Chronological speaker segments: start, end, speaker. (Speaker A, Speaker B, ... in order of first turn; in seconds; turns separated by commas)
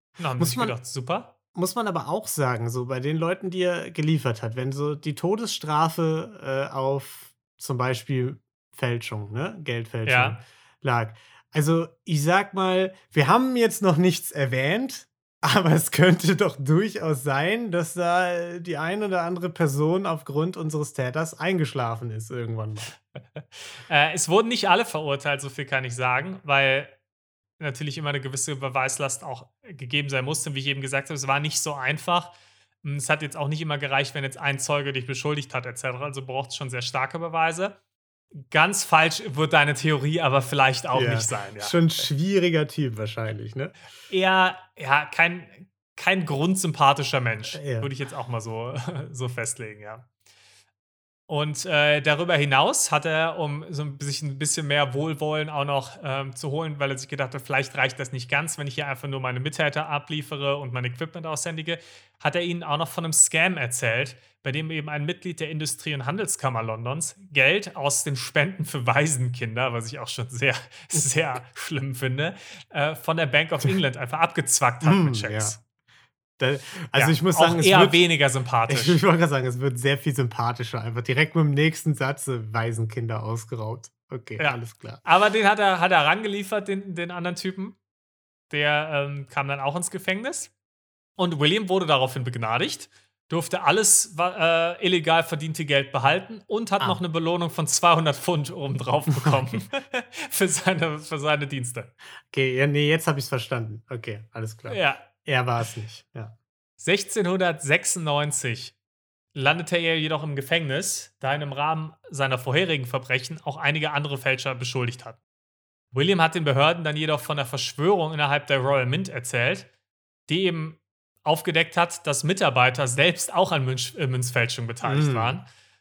Speaker A: 0.2-1.3, Speaker B: 0.4-0.8, Speaker B: 1.5-23.0, Speaker A: 10.1-10.4, Speaker A: 23.4-27.0, Speaker A: 27.6-37.8, Speaker A: 38.3-42.0, Speaker B: 40.9-43.7, Speaker A: 44.1-50.1, Speaker B: 47.5-47.9, Speaker A: 51.3-75.6, Speaker B: 74.8-75.6, Speaker B: 76.4-78.0, Speaker A: 76.9-79.0, Speaker B: 78.7-85.0, Speaker A: 84.4-87.8, Speaker A: 88.5-90.5, Speaker A: 91.2-101.9, Speaker B: 102.3-106.3, Speaker A: 104.7-105.1, Speaker A: 106.8-108.7, Speaker A: 109.3-115.2, Speaker A: 115.9-119.7, Speaker A: 120.3-125.5, Speaker B: 124.8-125.4